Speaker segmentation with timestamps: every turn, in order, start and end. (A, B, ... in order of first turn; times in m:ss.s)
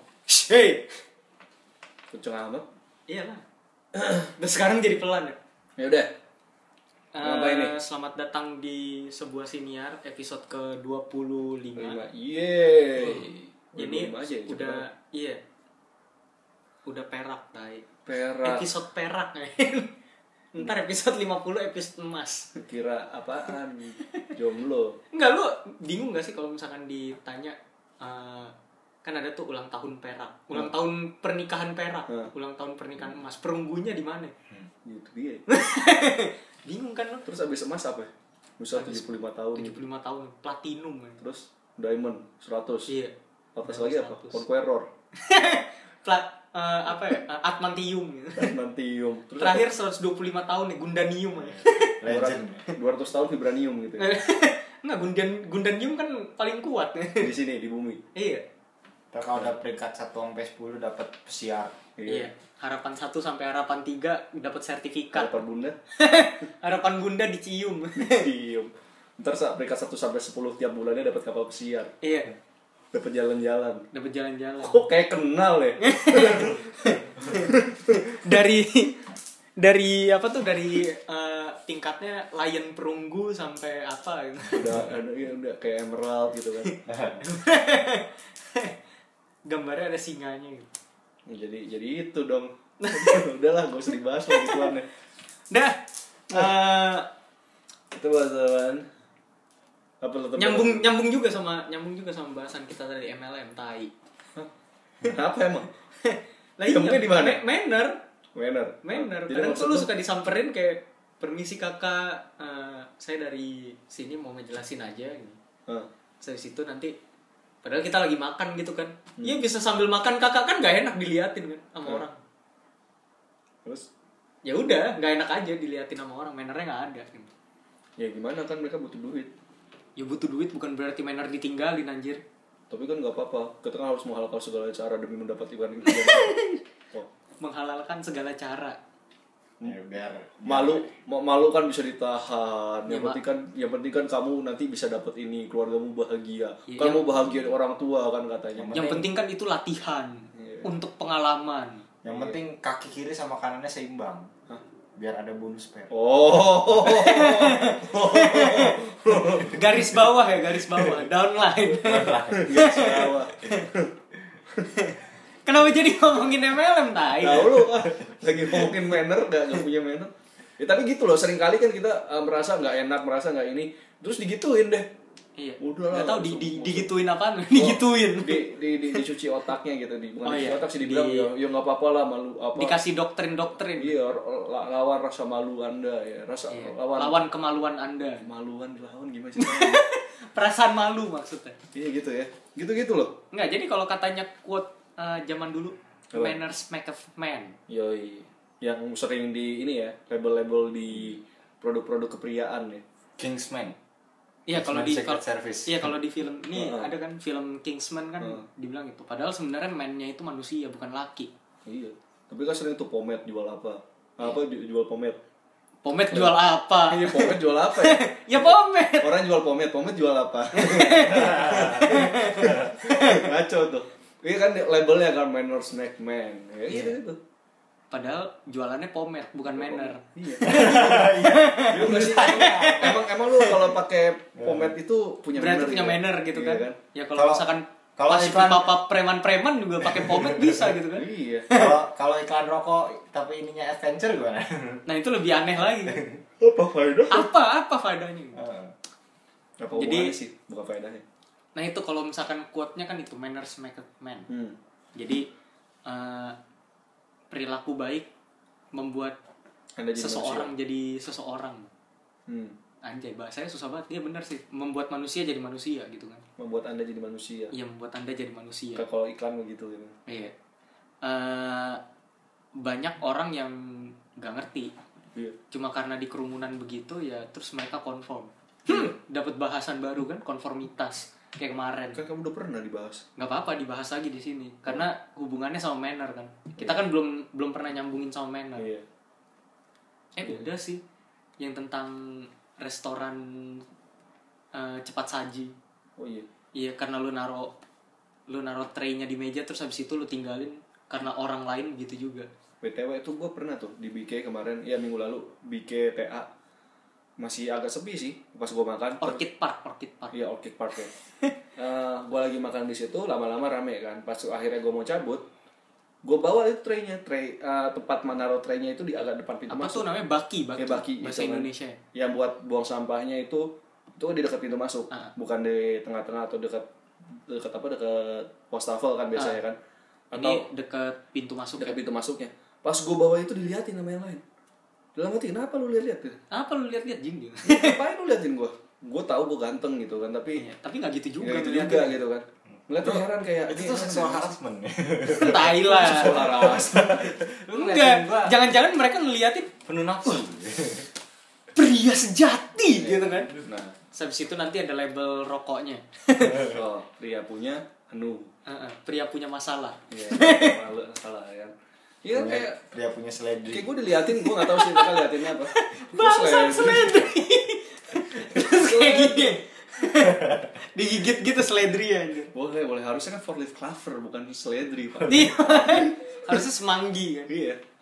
0:00.3-0:00.9 A
0:02.1-0:02.6 B
0:03.1-0:03.4 A
0:03.9-0:04.3 B
0:04.4-0:05.4 A
0:05.8-0:06.1 B
0:07.1-0:12.0 A
0:07.2-0:07.7 B
0:11.8-0:14.8 B
0:13.0-0:15.4 A
0:16.8-0:17.8 A
0:18.0-0:18.7 B
0:18.4-0:19.9 A
0:20.5-0:22.5 A
0:22.6-0:25.0 B
0:25.1-0:28.5 A
0:29.0-0:34.3 A
0:34.8-0:35.4 B
0:35.5-0:37.2 A
0:37.2-0:39.8 B
0:38.7-0:41.2 A
0:41.2-0:42.9 B
0:42.9-0:43.1 A
0:43.5-0:44.9 B
0:43.6-0:44.4 A
0:45.2-0:48.5 A
0:48.4-0:49.7 B
0:49.4-0:52.0 A
0:52.0-0:52.6 C
0:52.0-0:54.1 B
0:54.0-0:57.3 A
0:57.2-0:58.0 B
0:58.1-0:58.4 A
0:59.1-1:01.8 C
1:02.0-1:02.3 B
1:02.1-1:05.4 A
1:05.1-1:05.8 B
1:05.9-1:08.3 A
1:08.0-1:11.9 B
1:12.0-1:12.3 A
1:12.9-1:13.9 B
1:13.9-1:14.8 A
1:14.6-1:16.6 B
1:15.8-1:19.0 A
1:17.2-1:18.0 B
1:19.6-1:24.8 A
1:24.5-1:26.7 B
1:26.6-1:28.8 A
1:26.9-1:27.2 C
1:29.4-1:30.7 A
1:31.3-1:34.9 B
1:32.8-1:33.2 A
1:34.3-1:34.7 A
1:35.5-1:37.1 A
1:37.9-1:38.9 B
1:40.0-1:40.8 B
1:40.4-1:43.9 A
1:45.0-1:45.7 B
1:46.0-1:48.0 A
1:46.7-1:47.4 B
1:48.3-1:49.9 B
1:48.8-1:55.4 A
1:56.2-1:56.9 A
1:57.6-2:02.2 A
2:04.4-2:07.3 A
2:08.0-2:09.3 B
2:10.0-2:12.2 A
2:12.7-2:17.1 B
2:15.9-2:16.6 A
2:17.4-2:18.8 A
2:19.6-2:20.9 C
2:20.4-2:28.9 B
2:22.9-2:23.2 A
2:26.7-2:27.3 A
2:28.5-2:29.0 C
2:28.7-2:31.8 A
2:30.3-2:30.7 B
2:32.0-2:34.3 C
2:32.0-2:32.4 B
2:35.0-2:35.9 C
2:35.9-2:40.1 B
2:36.8-2:38.8 A
2:39.4-2:43.7 A
2:41.8-2:42.5 C
2:42.3-2:43.9 B
2:44.7-2:47.7 A
2:47.2-2:54.8 B
2:55.4-2:59.0 A
2:55.6-2:56.9 B
2:57.5-3:02.8 B
3:00.2-3:01.3 A
3:02.6-3:03.9 A
3:03.8-3:07.2 B
3:06.5-3:08.2 A
3:08.2-3:09.8 B
3:09.4-3:11.6 A
3:11.7-3:13.2 B
3:13.3-3:17.6 A
3:16.1-3:16.4 B
3:17.7-3:22.8 B
3:23.2-3:23.8 C
3:24.5-3:31.3 A
3:24.5-3:25.8 C
3:26.5-3:26.9 B
3:31.6-3:35.2 B
3:35.8-3:39.1 A
3:36.1-3:47.2 B
3:40.5-3:43.2 A
3:41.2-3:41.8 C
3:42.4-3:42.7 C
3:47.9-3:53.1 A
3:49.4-3:51.1 B
3:50.4-3:53.7 C
3:51.7-3:56.8 B
3:54.4-3:54.7 C
3:55.4-4:01.8 A
3:57.1-3:57.4 C
3:58.0-3:58.7 C
3:59.9-4:00.7 C
4:00.9-4:01.5 B
4:01.5-4:04.8 C
4:04.9-4:06.0 A
4:05.8-4:06.2 C
4:06.4-4:07.3 B
4:07.1-4:08.4 A
4:08.3-4:08.7 C
4:09.6-4:11.0 B
4:09.7-4:10.1 A
4:11.5-4:14.3 A
4:14.3-4:14.6 B
4:14.9-4:15.3 A
4:15.8-4:16.4 A
4:17.3-4:18.1 A
4:18.7-4:19.2 A
4:19.8-4:20.5 B
4:20.0-4:21.7 A
4:22.3-4:22.6 B
4:22.8-4:26.2 A
4:26.4-4:27.5 B
4:27.5-4:28.8 A
4:28.8-4:30.0 B
4:30.1-4:30.3 A
4:31.0-4:31.8 A
4:32.6-4:34.7 A
4:35.5-4:42.0 A
4:38.7-4:38.9 B
4:41.9-4:43.0 B
4:43.2-4:48.7 A
4:48.6-4:48.8 B
4:50.2-4:50.8 A
4:50.2-4:50.5 B
4:51.4-4:53.6 A
4:54.5-4:55.5 A
4:56.0-4:56.2 B
4:56.5-4:57.5 A
4:58.3-5:02.3 A
5:02.6-5:06.3 B
5:07.2-5:09.2 B
5:09.0-5:10.2 A
5:10.1-5:10.9 B
5:11.6-5:15.2 B
5:16.0-5:19.8 B
5:19.5-5:21.8 A
5:20.6-5:26.6 B
5:27.3-5:29.6 B
5:30.1-5:30.4 B
5:30.1-5:31.8 A
5:31.6-5:34.2 B
5:35.0-5:36.2 B
5:36.3-5:37.8 A
5:37.5-5:40.4 B
5:40.4-5:42.0 A
5:41.2-5:44.3 B
5:42.8-5:48.4 C
5:45.1-5:46.4 A
5:45.6-5:47.1 B
5:47.5-5:49.5 A
5:49.6-5:50.9 C
5:51.5-5:53.3 A
5:52.7-5:53.7 B
5:53.9-5:56.6 A
5:56.3-5:58.3 B
5:58.4-6:00.6 A
5:59.9-6:02.6 B
6:02.1-6:03.8 C
6:03.5-6:07.1 B
6:04.0-6:12.3 A
6:08.2-6:09.4 B
6:12.3-6:16.4 B
6:15.0-6:17.3 A
6:17.3-6:17.6 B